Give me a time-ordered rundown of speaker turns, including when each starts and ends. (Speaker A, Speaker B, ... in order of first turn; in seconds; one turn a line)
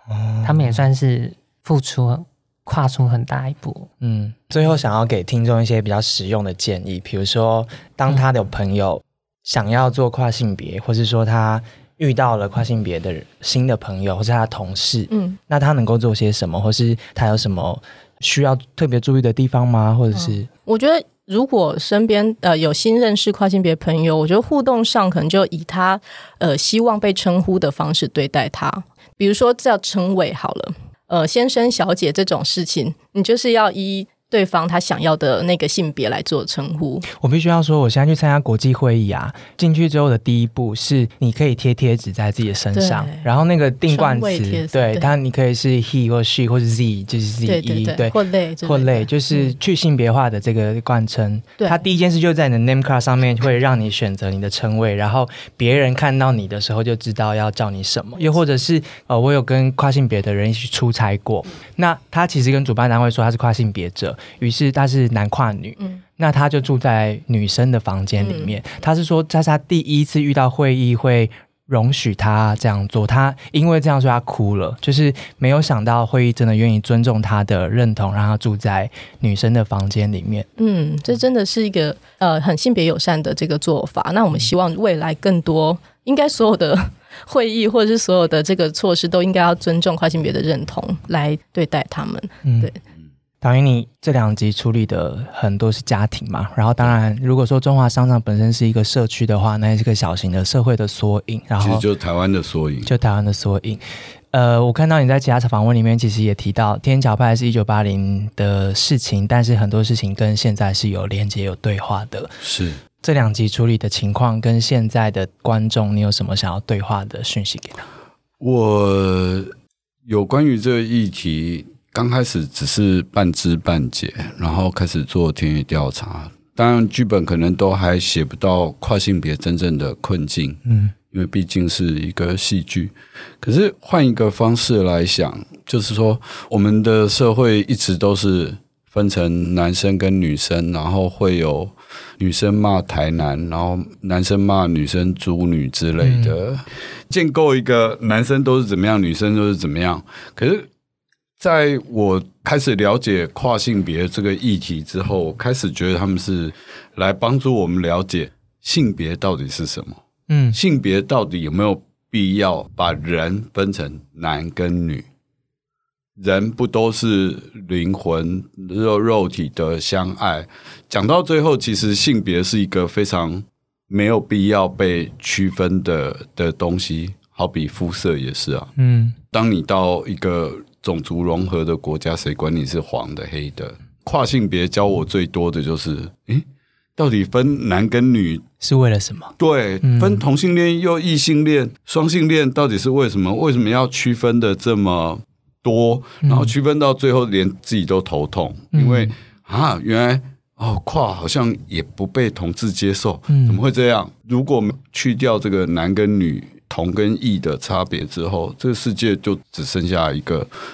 Speaker A: 0.1-0.8
Speaker B: 0.4-3.9
Speaker A: 4.0-20.5
Speaker C: 15.1-15.4
Speaker C: 20.1-37.1
Speaker A: 37.1-80.5
Speaker C: 42.7-43.2
Speaker C: 43.9-45.1
Speaker C: 47.5-49.5
Speaker C: 68.2-68.5
Speaker C: 80.6-92.8
Speaker A: 92.4-92.7
Speaker A: 93.4-101.8
Speaker D: 101.6-102.9
Speaker A: 102.8-112.4
Speaker D: 112.4-112.8
Speaker A: 113.0-117.9
Speaker D: 118.4-119.5
Speaker D: 120.1-150.7
Speaker A: 130.7-130.9
Speaker A: 146.0-146.4
Speaker D: 151.4-160.0
Speaker A: 160.3-160.6
Speaker D: 160.5-165.1
Speaker D: 166.2-178.7
Speaker A: 178.8-179.2
Speaker D: 179.3-186.4
Speaker D: 187.0-188.4
Speaker A: 188.6-190.2
Speaker D: 189.4-210.5
Speaker A: 196.2-196.5
Speaker A: 198.7-199.1
Speaker A: 203.3-203.6